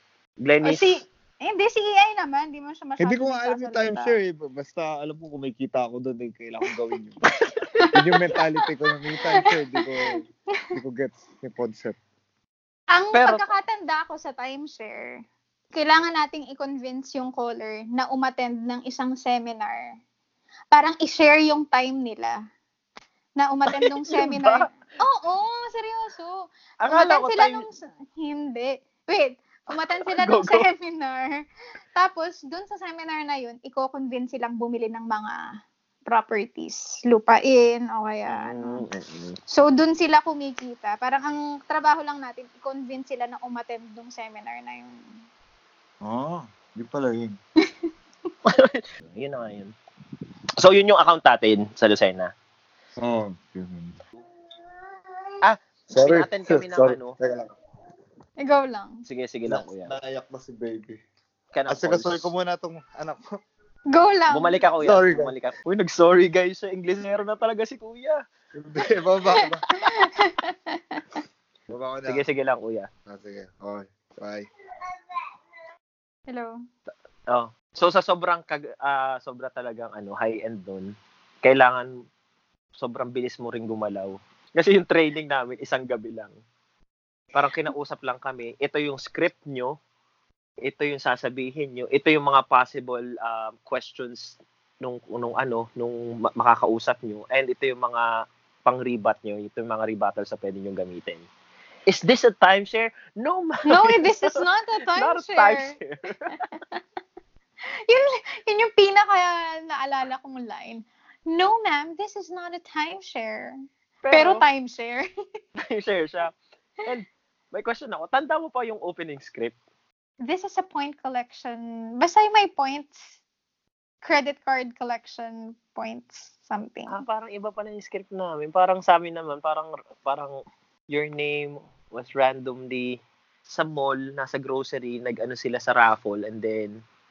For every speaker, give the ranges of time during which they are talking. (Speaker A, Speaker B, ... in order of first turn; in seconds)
Speaker A: 0.4-0.9, 7.3-7.9, 13.1-13.4, 23.7-24.7, 26.8-27.6, 29.7-30.7, 38.3-39.4, 48.4-49.7, 50.6-52.3, 55.4-57.1, 59.1-59.9, 61.5-62.3, 64.3-68.2, 72.1-72.9, 77.3-80.9, 81.4-81.9, 82.8-86.3, 87.3-89.7, 90.6-98.1, 98.6-101.2, 101.9-104.4, 104.9-106.3, 114.0-114.4, 115.6-119.5, 126.9-130.3, 130.9-132.9, 133.5-136.7
Speaker B: 0.6-4.1, 7.8-9.8, 12.9-15.2, 15.7-19.9, 20.7-22.4, 23.4-31.4, 31.9-35.4, 36.0-38.8, 39.5-45.0, 58.4-59.0, 63.9-64.6, 69.4-71.2, 76.3-76.5, 103.7-105.7, 106.4-106.8, 107.9-113.5, 114.1-115.0, 120.2-123.1, 124.0-127.0
Speaker C: 3.0-7.2, 7.9-12.0, 46.0-47.4, 53.0-54.0, 55.9-57.5, 59.5-61.0, 61.7-63.2, 64.8-65.3, 68.5-69.6, 71.7-72.2, 73.0-74.5